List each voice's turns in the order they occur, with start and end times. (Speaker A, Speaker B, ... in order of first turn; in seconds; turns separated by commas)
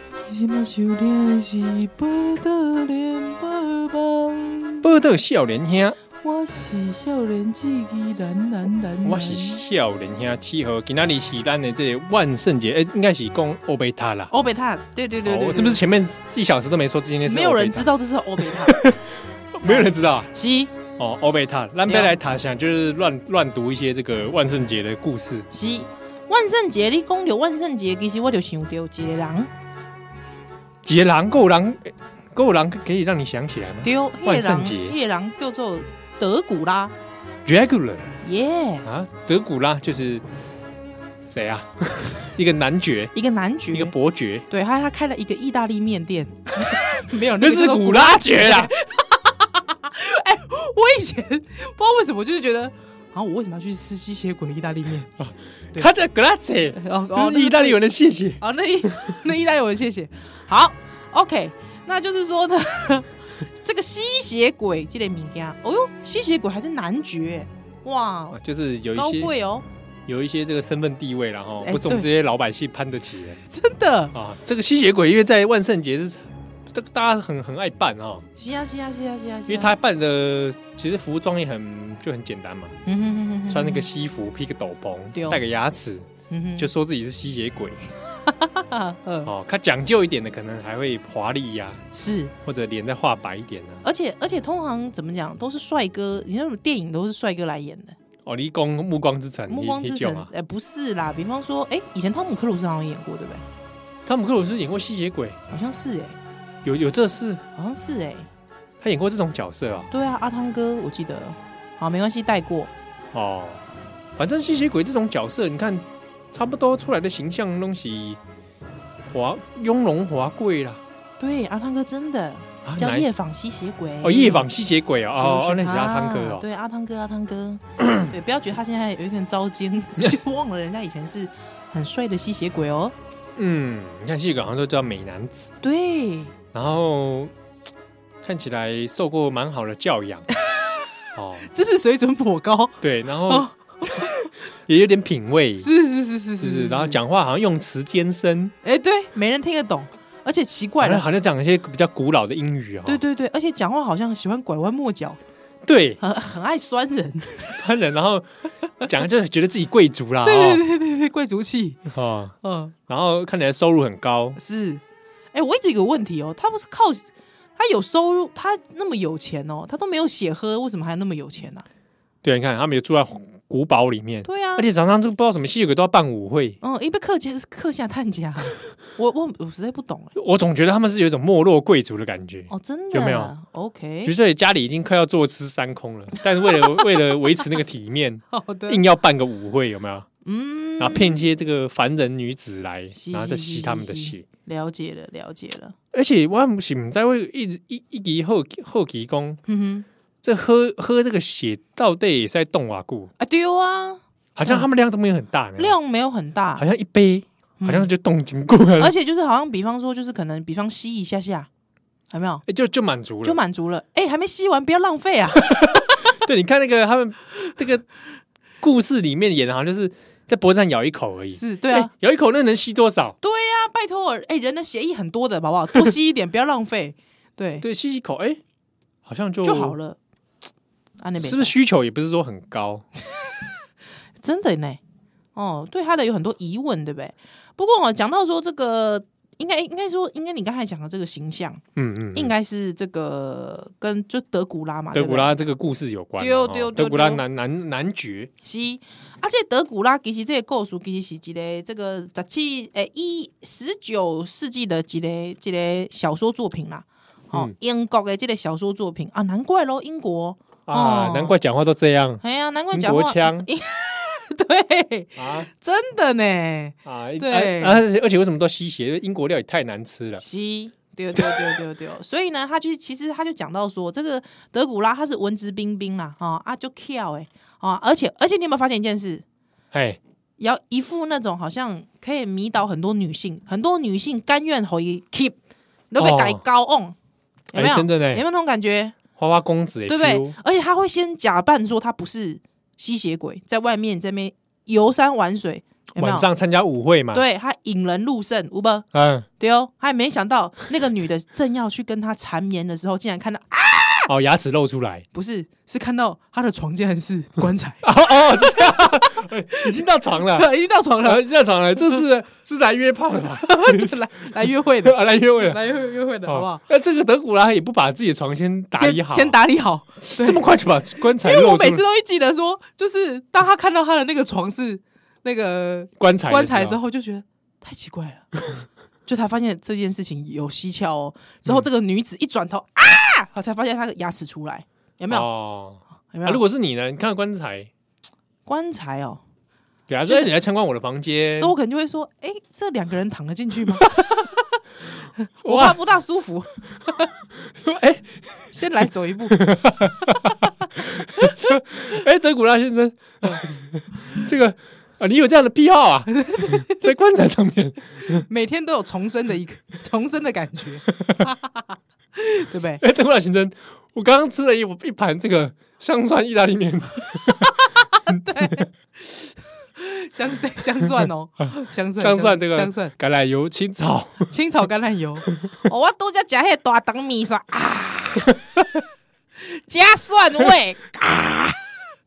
Speaker A: 0.2-4.9, Speaker B: 4.8-6.0, Speaker A: 6.2-9.6, Speaker B: 9.0-14.3, Speaker A: 14.3-15.8, Speaker B: 15.2-20.3, Speaker A: 17.2-18.9, Speaker A: 19.6-20.7, Speaker B: 21.0-25.5, Speaker A: 21.9-22.1, Speaker A: 25.5-29.5, Speaker B: 30.8-35.0, Speaker A: 33.8-36.9, Speaker B: 37.4-38.1, Speaker A: 38.2-38.9, Speaker B: 38.8-40.2, Speaker B: 41.2-43.1, Speaker A: 43.1-43.9, Speaker B: 43.7-44.5, Speaker A: 44.5-55.1, Speaker B: 47.4-48.7, Speaker B: 55.2-59.1, Speaker A: 56.7-57.8, Speaker A: 58.4-68.4, Speaker B: 68.3-69.3, Speaker A: 68.9-69.6, Speaker B: 70.1-73.4, Speaker A: 71.6-72.1, Speaker A: 73.5-74.1, Speaker B: 74.1-78.2, Speaker A: 78.3-79.7, Speaker B: 79.5-82.7, Speaker A: 82.8-83.9, Speaker B: 83.5-86.1, Speaker A: 85.1-85.4, Speaker A: 86.3-86.7, Speaker B: 86.6-87.8, Speaker A: 88.3-89.3, Speaker B: 89.2-91.8, Speaker A: 91.9-92.3, Speaker B: 92.4-93.8, Speaker A: 93.8-98.0, Speaker B: 98.2-100.3, Speaker A: 99.5-103.4, Speaker B: 104.0-105.4, Speaker A: 105.5-106.2, Speaker B: 106.6-107.4, Speaker A: 107.5-108.3, Speaker B: 108.8-109.9, Speaker A: 109.9-112.7, Speaker B: 113.1-113.6, Speaker B: 114.2-118.2, Speaker B: 119.0-120.8, Speaker A: 121.2-124.5, Speaker B: 122.6-123.1, Speaker B: 124.0-126.5, Speaker A: 125.1-132.9, Speaker B: 133.3-135.5, Speaker A: 135.6-136.3, Speaker B: 136.5-137.3, Speaker B: 138.2-140.3, Speaker A: 140.5-140.8, Speaker B: 141.1-141.5, Speaker A: 141.4-144.3, Speaker B: 142.8-143.5, Speaker B: 144.7-145.7, Speaker A: 145.6-147.0, Speaker B: 146.4-148.5, Speaker A: 148.6-151.0, Speaker B: 150.8-153.0, Speaker A: 152.8-155.2, Speaker B: 155.6-156.0, Speaker A: 156.0-157.6, Speaker B: 157.4-158.3, Speaker B: 158.8-160.6, Speaker A: 160.2-161.8, Speaker B: 161.9-162.3, Speaker A: 162.4-162.7, Speaker B: 162.9-164.4, Speaker A: 164.4-164.8, Speaker A: 165.3-171.7, Speaker B: 172.2-176.6, Speaker A: 174.2-174.7, Speaker A: 176.6-180.1, Speaker B: 180.2-183.3, Speaker A: 182.5-184.1, Speaker B: 184.0-190.1, Speaker A: 186.4-187.1, Speaker A: 188.3-188.8, Speaker A: 190.2-191.2, Speaker B: 190.8-194.2, Speaker A: 192.9-195.7, Speaker B: 195.9-199.4, Speaker A: 199.5-199.9, Speaker B: 200.2-203.1, Speaker A: 203.2-204.7, Speaker B: 204.3-205.8, Speaker A: 205.6-206.6, Speaker B: 206.6-208.9, Speaker A: 207.6-207.9, Speaker A: 208.8-211.5, Speaker A: 212.1-212.4, Speaker B: 212.5-213.4, Speaker A: 213.2-216.2, Speaker B: 215.5-217.9, Speaker B: 218.6-223.2, Speaker A: 221.3-221.9, Speaker A: 223.2-227.6, Speaker B: 227.6-228.4, Speaker B: 229.1-229.8, Speaker A: 229.4-230.0, Speaker A: 231.0-231.5, Speaker B: 231.2-232.8, Speaker A: 234.2-234.8, Speaker A: 235.3-241.6, Speaker B: 241.8-242.3, Speaker A: 242.1-245.4, Speaker B: 244.9-248.3, Speaker A: 246.2-247.2, Speaker A: 248.4-261.4, Speaker B: 260.7-263.5, Speaker A: 262.2-267.8, Speaker B: 265.2-265.5, Speaker B: 266.8-270.2, Speaker A: 270.2-279.2, Speaker B: 271.2-271.6, Speaker B: 279.7-280.0, Speaker A: 280.4-285.4, Speaker A: 285.9-286.9, Speaker B: 286.0-286.4, Speaker B: 287.5-288.2, Speaker A: 287.5-289.0, Speaker B: 289.2-290.4, Speaker A: 289.9-296.3, Speaker B: 295.9-297.2, Speaker A: 297.1-298.9, Speaker B: 298.9-299.3, Speaker A: 299.4-304.1, Speaker B: 304.1-305.1, Speaker A: 305.1-311.2, Speaker B: 307.8-310.5, Speaker B: 311.0-314.0, Speaker A: 313.3-316.6, Speaker B: 314.8-315.6, Speaker B: 316.2-319.4, Speaker A: 318.7-320.4, Speaker B: 320.0-321.8, Speaker A: 321.0-328.4, Speaker B: 326.0-326.8, Speaker A: 329.1-335.3, Speaker B: 335.1-337.7, Speaker A: 336.1-336.4, Speaker A: 338.4-339.2, Speaker B: 339.9-341.5, Speaker A: 340.1-340.3, Speaker A: 341.4-347.1, Speaker B: 345.4-345.8, Speaker B: 347.6-348.2, Speaker A: 348.5-349.4, Speaker B: 349.3-358.2, Speaker A: 351.2-351.6, Speaker A: 356.1-356.8, Speaker A: 358.3-362.8, Speaker B: 362.8-367.5, Speaker A: 367.4-372.9, Speaker B: 372.0-374.3, Speaker A: 374.2-378.4, Speaker A: 379.4-381.7